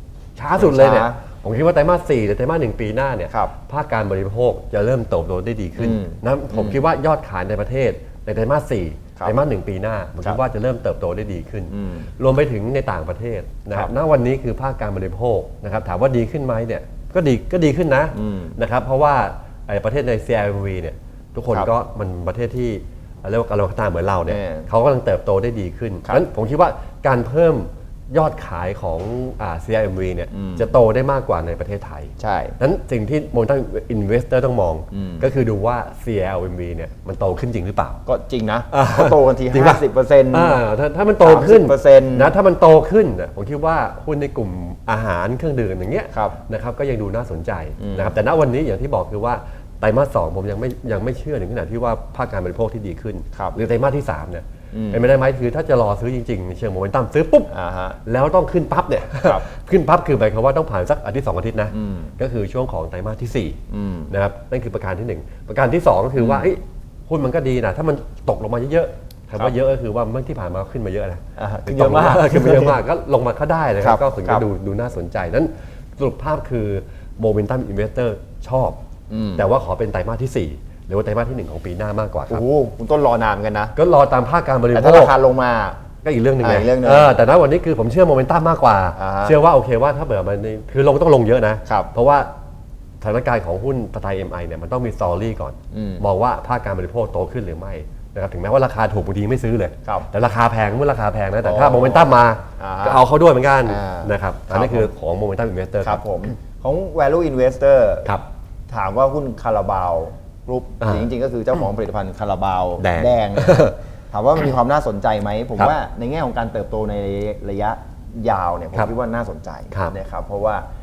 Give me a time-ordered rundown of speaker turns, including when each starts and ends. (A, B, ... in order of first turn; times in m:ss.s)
0:00.4-0:38.0 A
0:00.6-0:01.2 B
0:05.8-0:06.8 B
0:11.7-0:12.1 B
0:18.1-0:18.6 B
0:24.3-0:24.7 B
0:30.3-0:30.7 B
0:32.2-0:32.6 B
0:34.9-0:35.3 B
0:38.0-0:40.6 B
0:38.7-0:57.5 A
0:41.2-0:42.3 B
0:46.1-0:46.4 B
0:47.8-0:48.2 B
0:54.7-0:55.0 B
0:57.5-0:58.0 B
0:58.0-1:18.8 A
1:01.7-1:02.1 B
1:03.7-1:04.1 B
1:06.2-1:06.5 B
1:11.4-1:12.8 B
1:13.8-1:14.4 B
1:19.1-1:19.5 B
1:19.3-1:22.4 A
1:22.3-1:23.7 B
1:23.8-1:25.1 A
1:24.7-1:25.8 B
1:26.0-1:32.3 A
1:26.4-1:27.1 B
1:29.0-1:29.4 B
1:33.0-1:46.0 A
1:35.7-1:36.0 B
1:41.4-1:43.0 B
1:43.6-1:44.9 B
1:45.8-1:48.1 B
1:48.7-2:00.6 B
1:50.8-1:51.1 A
1:52.8-1:53.7 A